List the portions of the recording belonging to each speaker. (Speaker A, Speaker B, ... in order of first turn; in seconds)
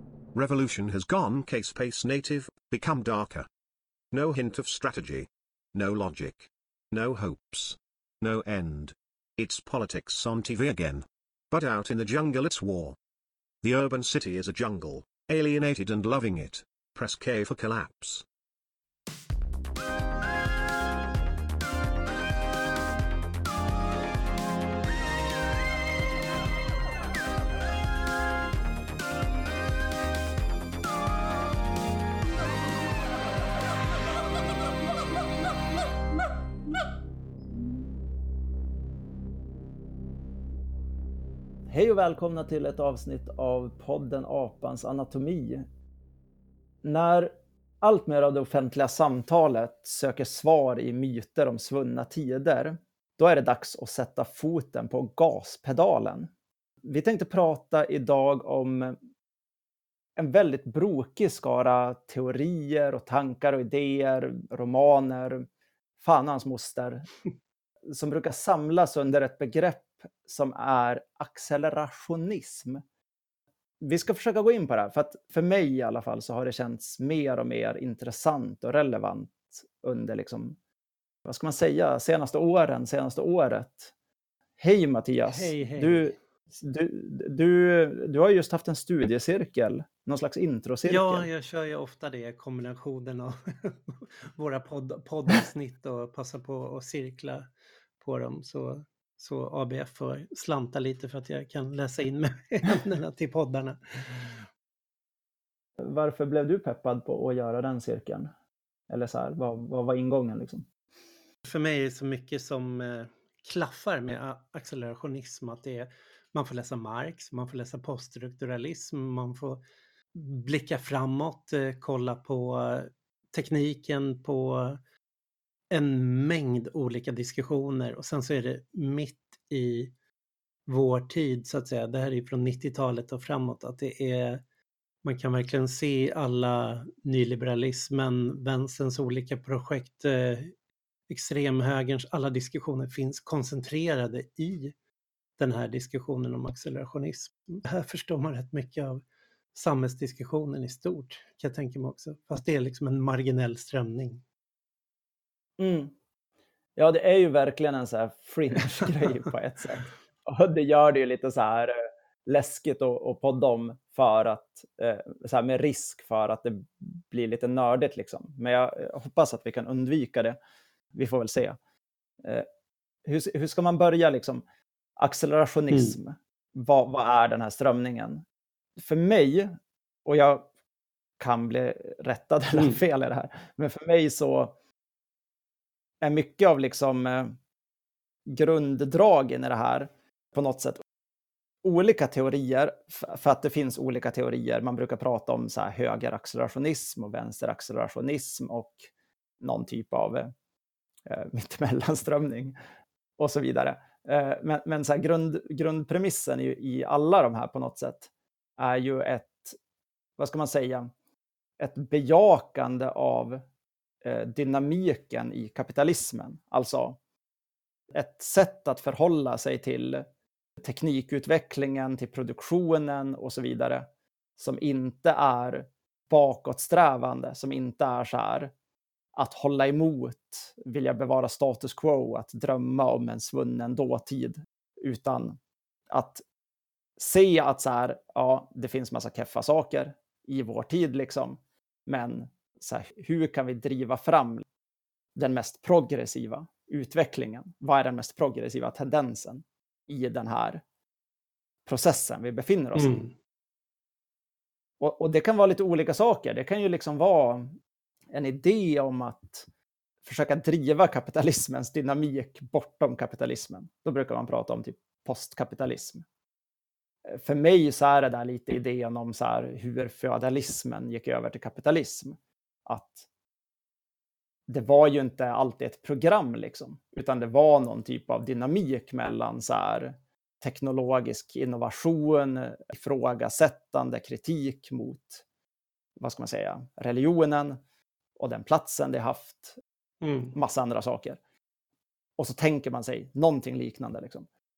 Speaker A: 0.3-3.5, 4.1-13.0, 13.6-18.3
Speaker B: 41.7-45.7, 46.8-56.3, 56.9-59.0, 60.2-65.5, 66.0-67.1, 67.9-72.8, 73.8-80.6, 81.2-83.9, 84.6-91.3, 105.8-108.3, 108.9-110.7, 155.6-155.9, 156.8-170.4, 170.9-171.6, 172.2-172.5, 173.1-174.4, 175.0-178.2, 178.8-180.5, 181.2-184.6, 186.0-187.4, 188.3-190.8, 191.6-200.3, 201.1-202.6, 203.2-209.6, 210.2-210.9, 211.6-213.4, 214.0-217.0, 217.9-220.1, 220.6-223.9, 224.4-228.5, 229.2-235.4, 235.9-236.2, 237.0-244.5, 245.2-250.6, 251.7-253.0, 254.8-257.6, 258.1-259.5, 260.0-266.1, 267.1-273.1, 274.5-285.2, 286.0-287.6, 288.2-289.6, 290.3-291.2, 292.2-294.3
Speaker C: 85.3-86.1, 90.8-97.5, 98.0-104.5, 111.5-119.6, 120.2-124.8, 125.7-129.9, 130.7-134.4, 135.0-140.5, 141.1-144.8, 145.4-154.2, 175.7-176.0, 252.8-253.1, 290.0-290.4